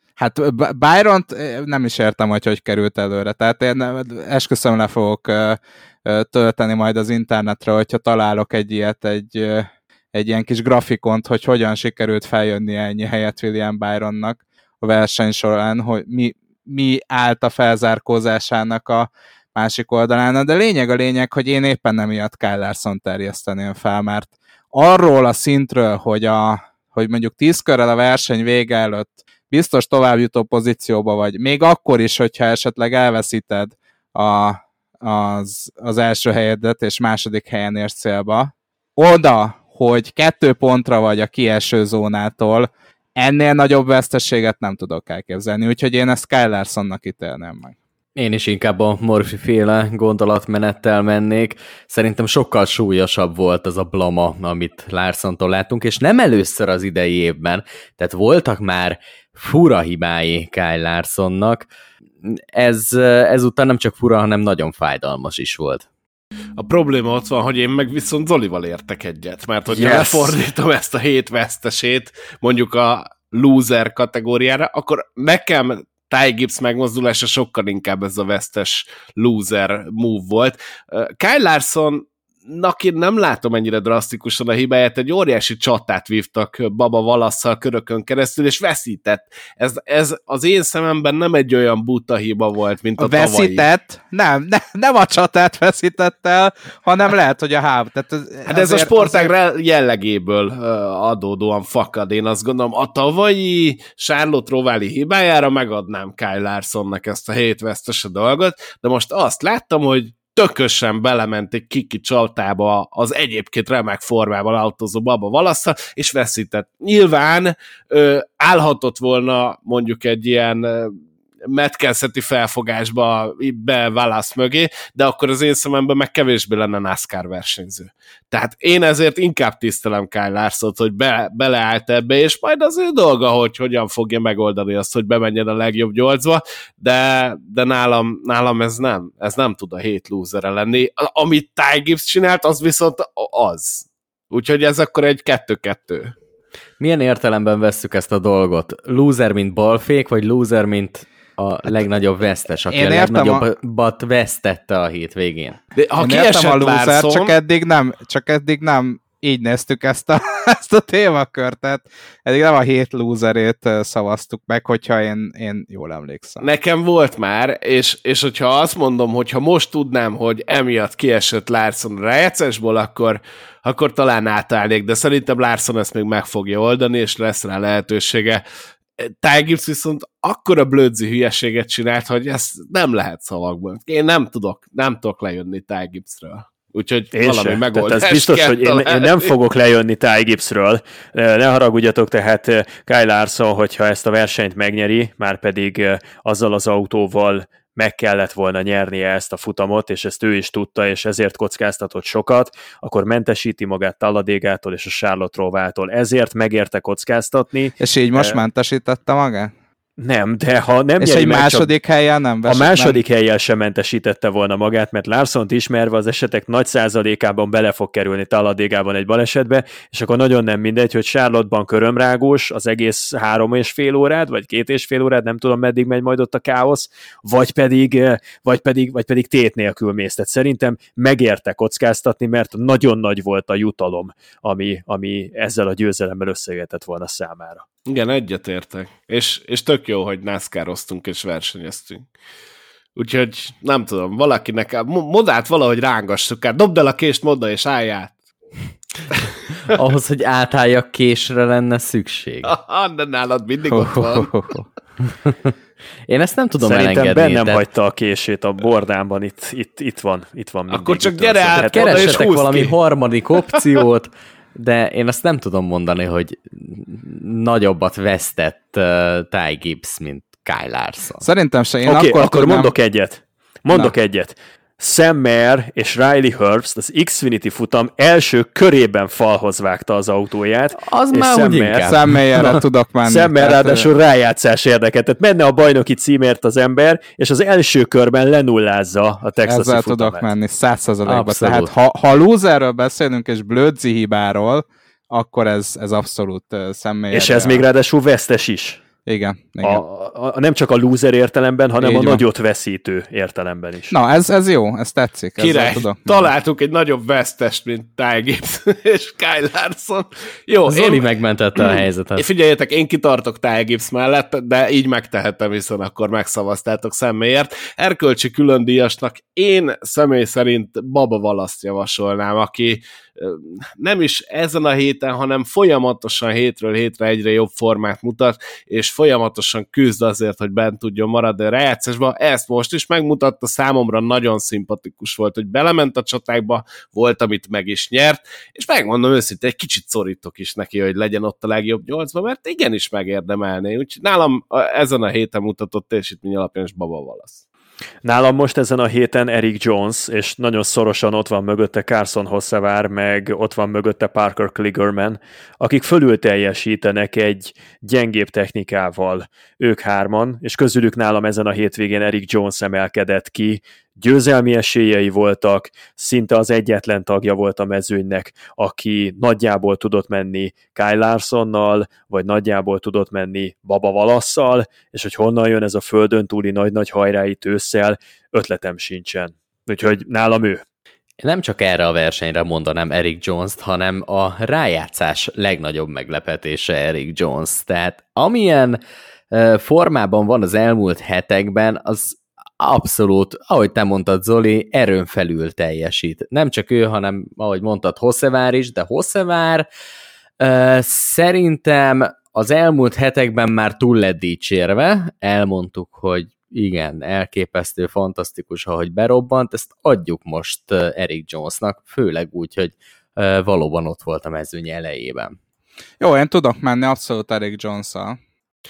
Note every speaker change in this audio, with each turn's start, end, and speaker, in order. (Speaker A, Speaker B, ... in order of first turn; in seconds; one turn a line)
Speaker A: 0.2-47.8
Speaker B: 48.2-61.7
Speaker B: 62.2-65.9
Speaker C: 66.6-93.7
Speaker D: 69.7-70.4
Speaker A: 93.0-99.3
Speaker C: 98.5-146.2
Speaker B: 146.8-155.6
Speaker A: 152.7-153.4
Speaker C: 155.8-157.3
Speaker A: 156.0-166.5
Speaker C: 166.4-178.4
Speaker C: 179.0-189.3
Speaker D: 187.1-208.4
Speaker A: 207.8-209.5
Speaker D: 210.0-211.7
Speaker A: 211.0-213.0
Speaker D: 212.5-237.6
Speaker C: 237.9-242.1
Speaker C: 243.0-248.2
Speaker B: 249.7-252.5
Speaker C: 252.4-254.3
Speaker A: 253.7-254.7
Speaker B: 256.1-257.6
Speaker D: 256.6-262.2
Speaker C: 260.7-262.8
Speaker B: 261.6-271.2
Speaker C: 263.5-263.8
Speaker A: 271.2-272.7
Speaker D: 271.9-290.3
Speaker B: 280.8-282.6
Speaker A: 281.9-283.9
Speaker A: 289.4-297.6
Speaker B: 291.1-291.7
Speaker D: 297.1-298.8
Speaker A: 299.1-299.8
Speaker D: 299.6-303.9
Speaker A: 301.8-302.2
Speaker A: 303.9-306.3
Speaker C: 305.4-347.4
Speaker B: 310.7-312.3
Speaker D: 348.0-380.6
Speaker B: 381.2-388.8
Speaker B: 389.3-399.7
Speaker B: 400.4-415.4
Speaker A: 416.0-418.2